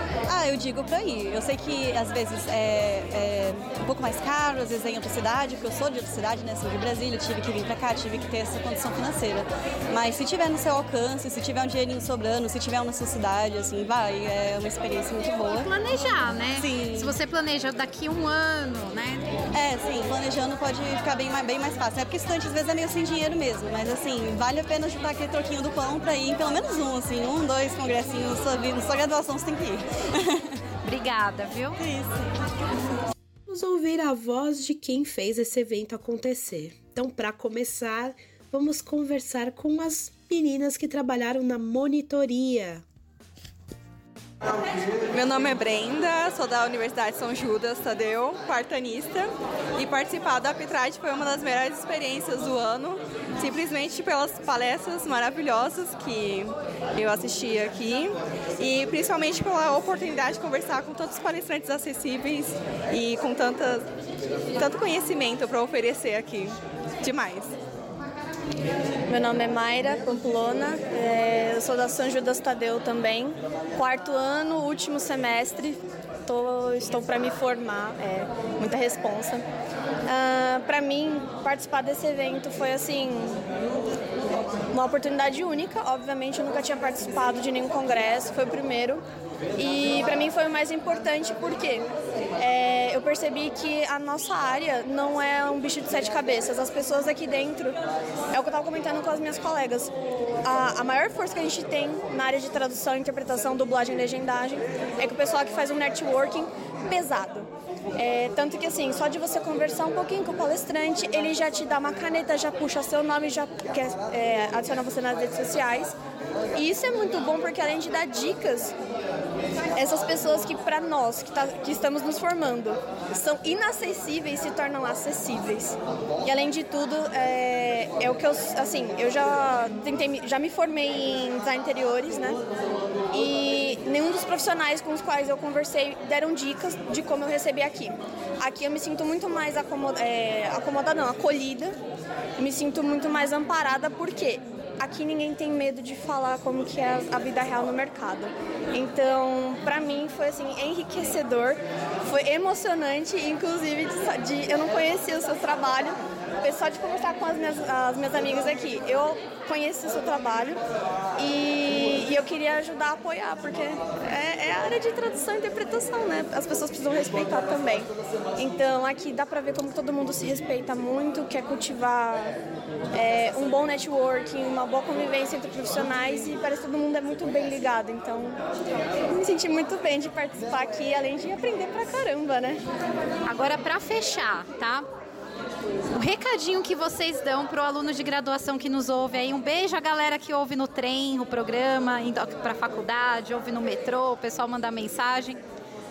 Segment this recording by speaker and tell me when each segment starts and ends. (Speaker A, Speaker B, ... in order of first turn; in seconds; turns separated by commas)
Speaker A: 0.3-15.7, Speaker B: 15.5-19.3, Speaker A: 16.5-17.2, Speaker A: 19.5-29.9, Speaker B: 30.8-31.8, Speaker A: 31.8-32.1, Speaker C: 33.5-42.8, Speaker D: 45.1-63.9, Speaker D: 64.6-67.5, Speaker E: 69.1-79.5, Speaker E: 80.1-83.4, Speaker E: 84.7-89.0, Speaker E: 89.6-91.9, Speaker E: 92.4-97.8, Speaker E: 98.3-99.9, Speaker E: 100.4-116.0, Speaker E: 116.5-118.8, Speaker E: 119.8-132.4, Speaker E: 133.1-141.8, Speaker E: 142.4-160.6, Speaker E: 161.2-172.3, Speaker E: 172.9-178.4, Speaker E: 179.1-182.6, Speaker B: 183.3-184.9, Speaker B: 185.9-195.4